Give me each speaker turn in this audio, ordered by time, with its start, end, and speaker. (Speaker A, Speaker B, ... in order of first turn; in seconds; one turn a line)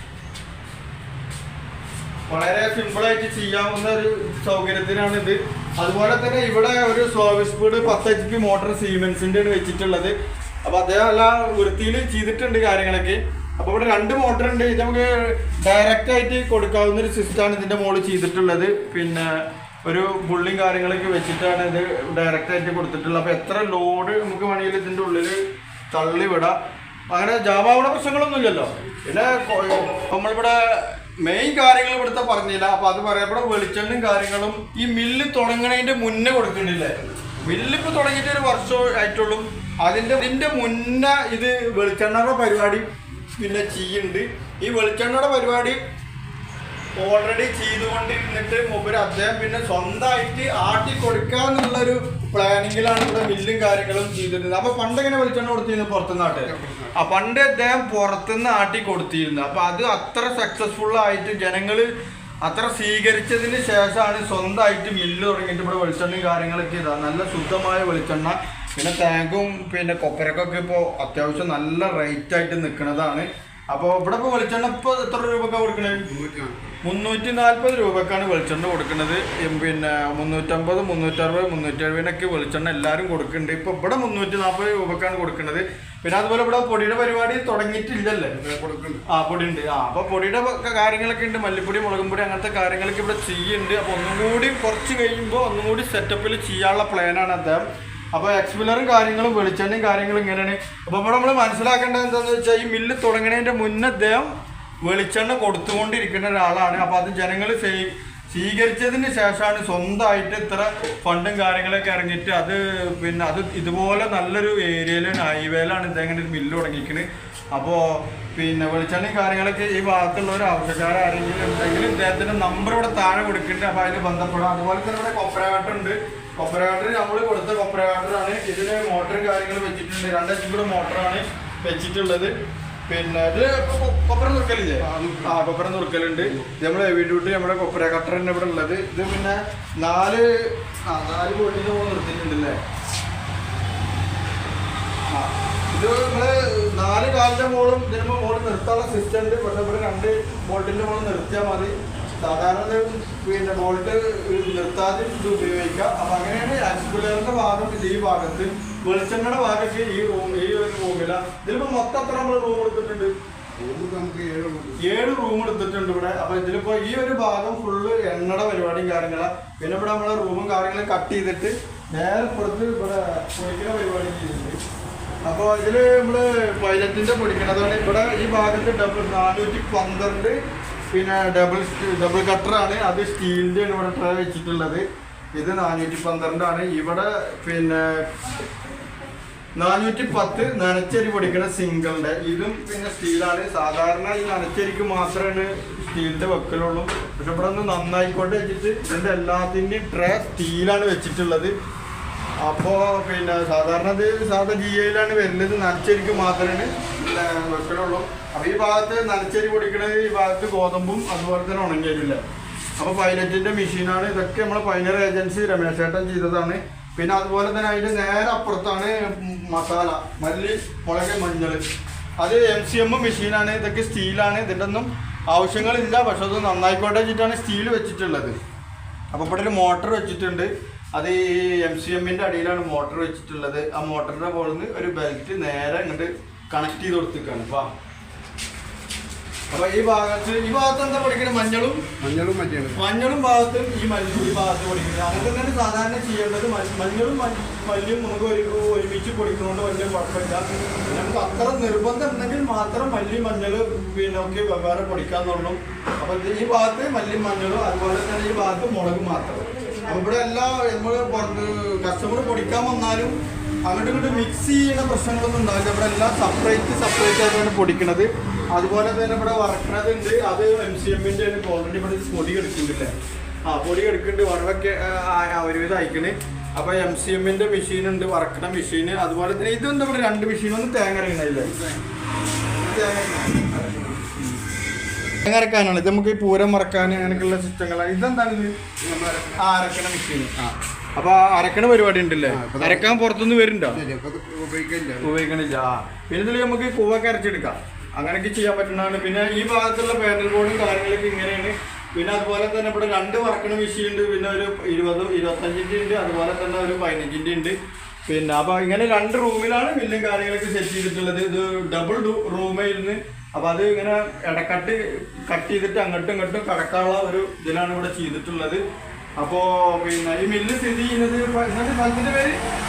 Speaker A: 2.3-25.4
Speaker A: 25.9-26.6
Speaker A: 27.1-42.9
Speaker A: 43.4-45.8
Speaker A: 47.0-61.9
Speaker B: 56.3-57.0
Speaker A: 62.4-76.1
Speaker B: 76.0-76.7
Speaker A: 76.8-88.3
Speaker B: 88.3-89.0
Speaker A: 89.1-132.3
Speaker A: 132.9-142.6
Speaker B: 134.8-135.4
Speaker B: 136.2-136.5
Speaker A: 145.1-163.1
Speaker B: 163.6-164.8
Speaker A: 164.8-174.6
Speaker A: 175.2-180.4
Speaker A: 180.9-188.1
Speaker A: 189.6-201.5
Speaker A: 202.4-212.2
Speaker A: 212.8-221.6
Speaker A: 222.2-228.4
Speaker A: 229.1-237.7
Speaker A: 239.5-241.9
Speaker B: 242.0-242.8
Speaker A: 242.7-272.9
Speaker A: 273.4-281.5
Speaker B: 281.4-281.8
Speaker A: 282.6-284.4
Speaker B: 282.6-282.9
Speaker A: 285.2-288.5
Speaker B: 286.9-287.3
Speaker B: 288.8-289.5
Speaker A: 289.4-293.8
Speaker B: 292.2-292.9
Speaker B: 293.7-295.1
Speaker A: 295.0-318.6
Speaker A: 319.2-322.4